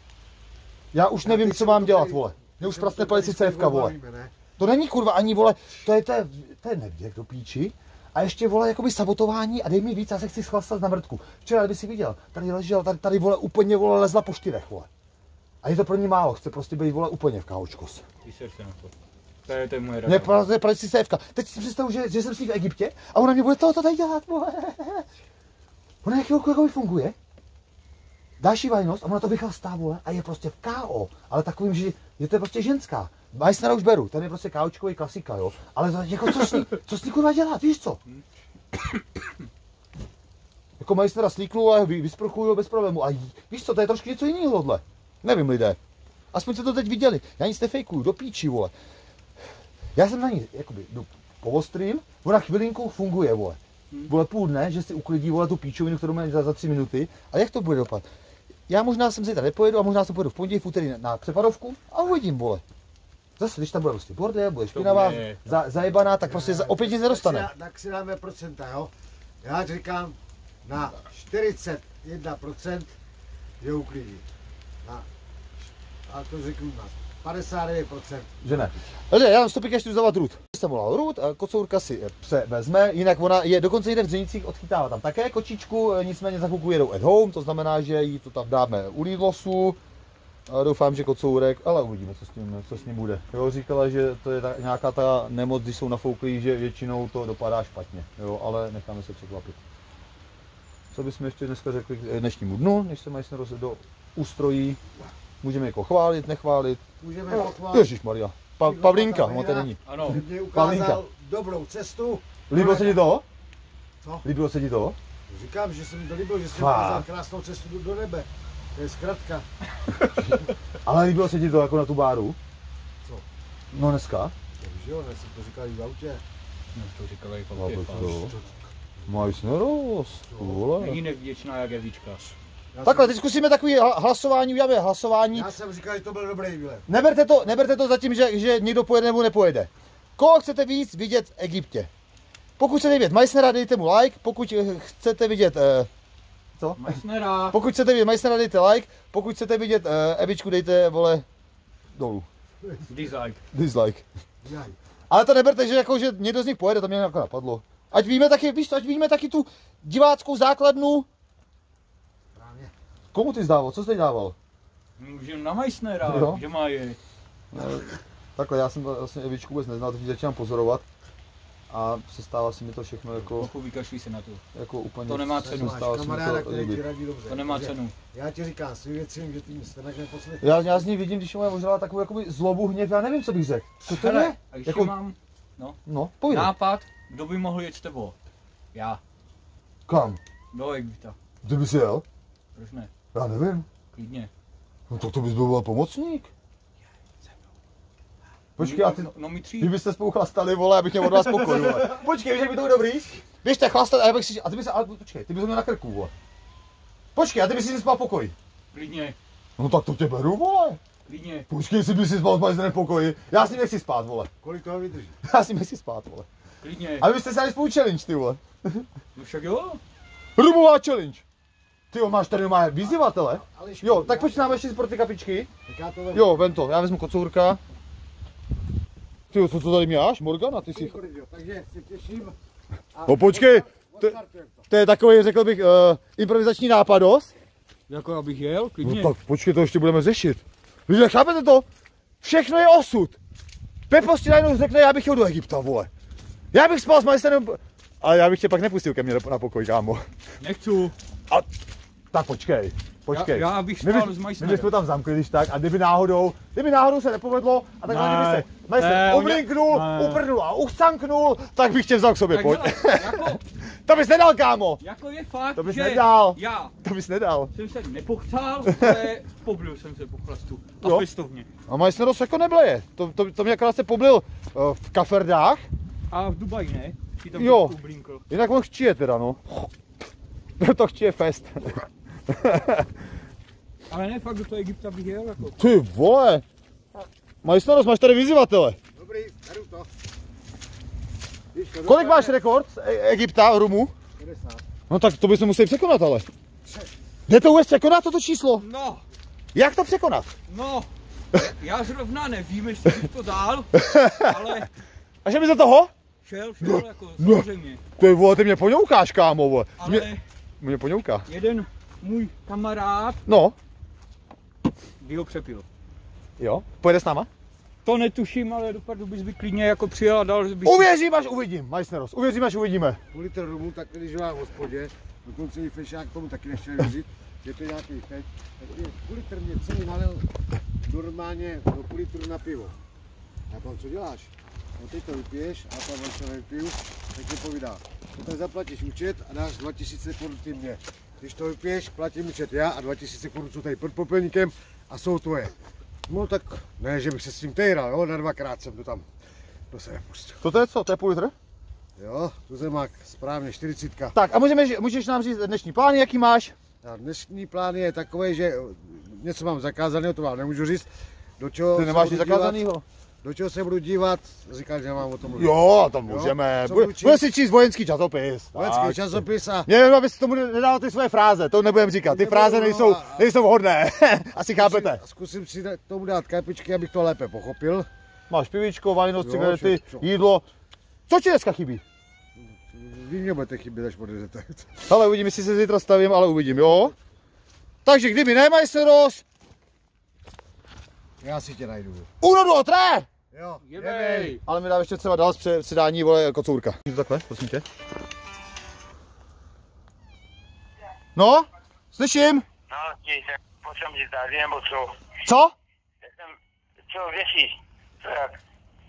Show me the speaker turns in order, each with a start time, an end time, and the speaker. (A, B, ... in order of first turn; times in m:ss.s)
0:00.9-0:04.0 A
0:01.2-0:04.4 B
0:04.6-0:14.9 A
0:15.6-0:18.0 A
0:18.2-0:18.9 C
0:19.4-0:20.4 C
0:20.1-0:25.1 A
0:26.0-0:27.2 A
0:28.4-0:38.0 A
0:40.8-0:45.8 A
0:46.3-0:48.7 A
0:50.0-0:58.0 A
0:58.7-1:02.6 A
1:03.4-1:07.5 A
1:04.7-1:05.4 C
1:06.2-1:13.0 B
1:13.6-1:14.2 B
1:16.1-1:18.7 B
1:18.4-1:29.8 A
1:30.5-1:39.6 A
1:40.9-1:44.8 A
1:45.4-1:49.8 A
1:47.0-1:47.9 B
1:48.6-1:53.1 B
1:49.9-1:50.3 C
1:50.4-1:51.0 A
1:52.5-1:53.2 A
1:54.0-1:54.3 B
1:54.2-1:55.0 A
1:55.3-1:59.5 B
1:56.5-1:57.1 A
2:00.1-2:02.4 A
2:03.7-2:04.3 A
2:04.6-2:06.2 B
2:06.7-2:08.2 C
2:07.6-2:08.3 A
2:07.9-2:08.6 B
2:09.1-2:11.0 A
2:10.3-2:10.6 B
2:10.8-2:12.4 C
2:12.7-2:13.2 B
2:12.8-2:15.5 A
2:15.3-2:16.9 B
2:16.9-2:21.9 A
2:22.6-2:25.9 A
2:26.6-2:31.2 A
2:26.8-2:27.6 C
2:32.0-2:32.3 A
2:32.6-2:32.9 B
2:32.9-2:33.4 C
2:33.5-2:34.0 A
2:34.4-2:34.8 B
2:35.1-2:41.1 A
2:42.3-2:42.7 B
2:43.1-2:44.4 A
2:45.0-2:47.0 C
2:46.0-2:46.4 A
2:47.5-2:50.8 A
2:51.7-2:53.5 A
2:53.2-2:54.4 C
2:54.6-2:56.8 A
2:55.1-2:55.8 C
2:55.4-3:00.9 B
2:57.3-2:57.9 C
3:00.4-3:04.9 A
3:03.9-3:08.2 C
3:05.8-3:06.5 A
3:08.7-3:09.0 C
3:09.9-3:10.2 A
3:10.5-3:11.2 C
3:11.4-3:12.0 A
3:12.6-3:12.9 C
3:13.1-3:13.7 A
3:13.9-3:14.3 C
3:14.9-3:16.3 A
3:18.6-3:26.1 A
3:18.6-3:19.7 C
3:21.0-3:22.0 C
3:27.2-3:28.4 A
3:28.7-3:29.2 C
3:29.6-3:30.8 A
3:31.1-3:31.5 C
3:31.5-3:34.3 A
3:34.4-3:35.2 B
3:35.2-3:36.3 A
3:36.6-3:37.1 C
3:37.0-3:38.8 A
3:39.2-3:39.8 C
3:40.4-3:41.2 A
3:41.9-3:45.5 A
3:42.8-3:44.6 B
3:45.7-3:46.6 B
3:46.1-3:47.6 A
3:49.3-3:51.0 A
3:50.7-3:52.4 B
3:52.9-3:54.7 B
3:53.0-3:54.1 A
3:54.7-3:57.3 A
3:57.9-3:59.1 C
3:58.8-4:01.7 A
4:02.2-4:03.2 A
4:03.9-4:05.9 A
4:06.5-4:10.0 A
4:10.4-4:10.9 C
4:12.1-4:24.8 A
4:13.1-4:14.7 C
4:17.8-4:20.3 C
4:22.3-4:23.4 C
4:24.8-4:26.7 C
4:25.6-4:27.5 A
4:27.5-4:31.5 C
4:31.7-4:35.6 A
4:36.1-4:38.2 C
4:37.3-4:37.8 A
4:38.3-4:39.7 A
4:40.6-4:42.9 A
4:43.9-4:45.6 C
4:45.6-4:46.4 A
4:47.4-4:48.8 A
4:49.0-4:49.9 B
4:51.5-4:52.4 B
4:51.9-4:53.9 A
4:54.2-4:54.7 B
4:54.9-4:56.3 A
4:56.6-4:56.9 B
4:57.3-4:58.6 A
4:58.6-4:59.0 C
4:59.5-5:00.3 A
5:00.5-5:04.7 C
5:03.8-5:04.4 A
5:05.2-5:05.9 A
5:06.2-5:07.8 C
5:06.6-5:07.5 A
5:08.0-5:10.1 A
5:09.8-5:10.2 C
5:10.6-5:11.3 A
5:11.3-5:13.2 C
5:13.3-5:13.6 A
5:15.0-5:15.6 C
5:16.4-5:17.3 A
5:17.8-5:20.9 C
5:20.6-5:23.0 A
5:23.1-5:30.3 B
5:30.8-5:32.8 B
5:33.5-5:45.6 B
5:46.1-5:49.1 B
5:49.7-5:50.5 B
5:50.4-5:51.3 A
5:52.0-5:54.2 B
5:54.1-5:56.6 A
5:56.8-6:02.6 B
6:01.7-6:02.8 A
6:03.2-6:07.2 B
6:05.3-6:15.0 A
6:08.5-6:09.7 B
6:12.0-6:13.3 B
6:14.5-6:17.9 B
6:18.3-6:20.5 A
6:19.2-6:20.1 B
6:21.1-6:21.8 A
6:22.4-6:24.8 B
6:24.9-6:26.9 A
6:26.5-6:27.0 B
6:27.8-6:29.2 A
6:31.2-6:32.1 B
6:32.2-6:33.1 A
6:33.3-6:33.7 B
6:33.7-6:34.4 C
6:33.8-6:37.6 A
6:41.2-6:42.4 A
6:42.7-6:45.0 D
6:45.2-6:45.5 A
6:46.0-6:46.4 D
6:46.9-6:48.4 D